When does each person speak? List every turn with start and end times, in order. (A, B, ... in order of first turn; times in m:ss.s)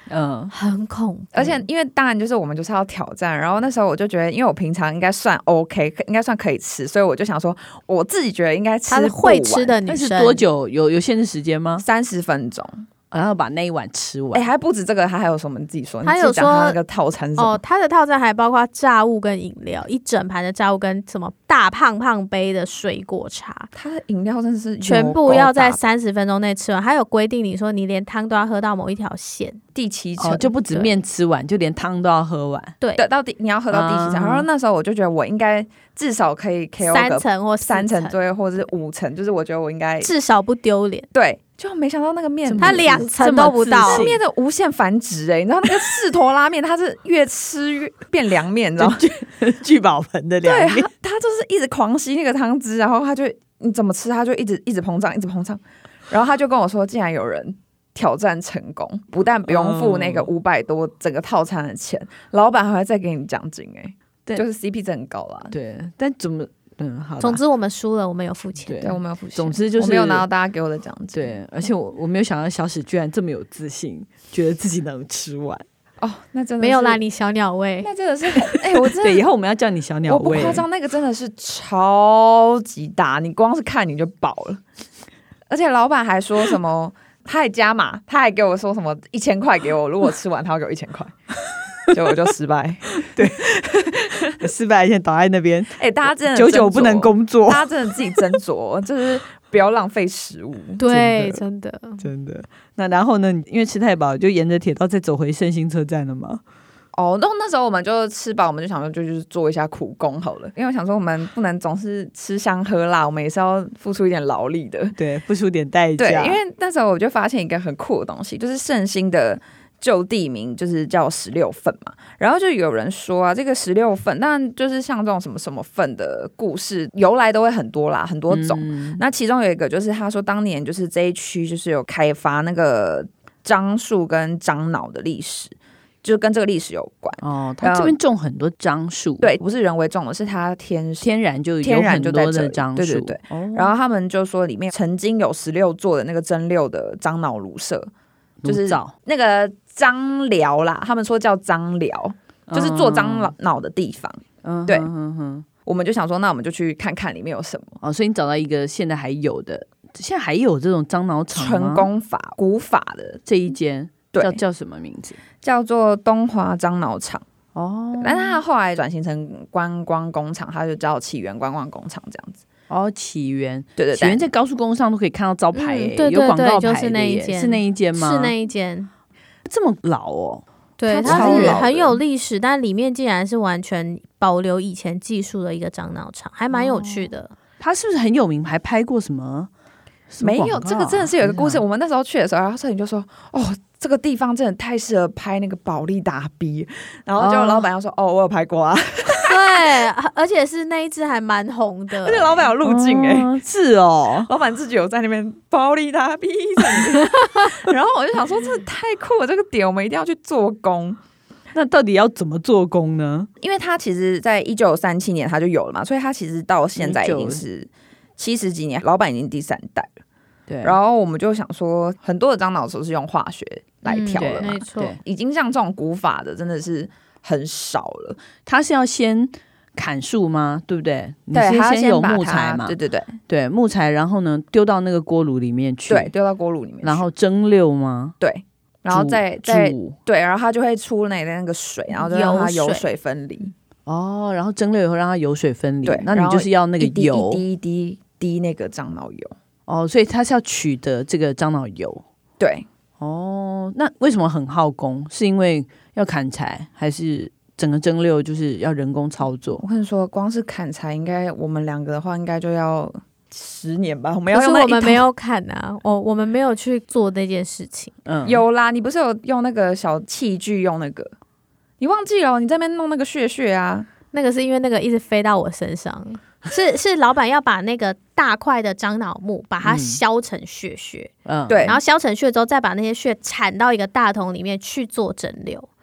0:00.1-0:00.5 A
0:00.5-0:01.6 B
0:01.3-0:09.8 C
0:08.9-0:10.4 B
0:09.9-0:11.8 A
0:11.8-0:12.8 C
0:13.1-0:14.5 A
0:14.3-0:17.6 C
0:16.0-0:16.8 B
0:17.4-0:23.7 B
0:23.7-0:25.9 C
0:24.8-0:29.6 B
0:29.7-0:30.6 C
0:30.2-0:32.8 A
0:33.0-0:40.1 C
0:33.7-0:34.5 A
0:36.8-0:38.2 B
0:40.0-0:41.1 B
0:41.1-0:43.0 C
0:42.4-0:44.2 A
0:42.6-0:44.1 B
0:43.8-0:49.0 C
0:48.8-0:50.9 A
0:50.4-1:05.5 C
0:59.5-1:00.3 A
1:05.5-1:07.4 A
1:07.2-1:08.9 B
1:08.6-1:10.2 A
1:08.8-1:11.4 C
1:11.1-1:15.6 A
1:16.0-1:17.0 C
1:16.6-1:17.9 B
1:17.8-1:19.2 C
1:18.4-1:20.6 A
1:20.1-1:24.6 C
1:25.5-1:31.1 C
1:31.8-1:34.4 C
1:33.0-1:35.8 A
1:35.8-1:40.8 C
1:36.3-1:38.4 A
1:40.8-1:42.0 B
1:40.9-1:41.4 A
1:42.0-1:46.4 A
1:46.9-1:55.0 C
1:55.0-1:56.4 A
1:56.0-2:17.9 C
2:08.3-2:09.0 A
2:17.2-2:19.3 A
2:19.2-2:21.1 C
2:21.0-2:23.7 A
2:21.6-2:27.9 C
2:28.4-2:28.9 A
2:28.4-2:34.9 C
2:32.5-2:33.3 A
2:34.4-2:35.4 A
2:35.6-2:37.8 C
2:37.8-2:41.9 A
2:41.3-2:43.2 C
2:43.2-2:45.2 A
2:44.1-2:44.4 C
2:45.4-2:47.2 C
2:47.5-2:48.4 A
2:48.0-2:52.4 C
2:52.7-2:58.3 A
2:53.8-2:54.2 C
2:55.5-2:58.9 B
2:59.4-3:00.4 A
3:00.8-3:07.3 B
3:00.9-3:02.0 C
3:01.0-3:01.7 A
3:06.5-3:09.5 A
3:10.1-3:11.6 A
3:10.2-3:19.7 C
3:17.2-3:17.7 A
3:19.2-3:22.5 B
3:22.0-3:23.3 C
3:22.6-3:24.3 A
3:24.2-3:31.0 C
3:31.5-3:33.3 A
3:33.4-3:39.9 C
3:36.8-3:37.4 A
3:40.5-3:40.8 A
3:40.6-3:48.2 C
3:43.9-3:45.0 B
3:44.2-3:45.0 A
3:48.4-3:52.8 A
3:51.3-3:53.2 C
3:53.3-3:56.1 A
3:55.9-3:57.0 C
3:56.8-3:58.2 A
3:58.2-4:03.5 C
3:58.9-4:00.0 A
4:01.9-4:02.8 B
4:03.9-4:07.4 A
4:05.8-4:09.3 C
4:09.7-4:12.0 A
4:12.4-4:12.6 C
4:13.0-4:19.6 A
4:19.6-4:25.0 C
4:24.3-4:27.9 B
4:28.0-4:28.4 A
4:28.2-4:31.1 C
4:31.8-4:33.9 C
4:34.1-4:41.1 B
4:39.6-4:40.0 A
4:41.2-4:41.7 A
4:41.5-4:41.8 C
4:41.6-4:45.7 B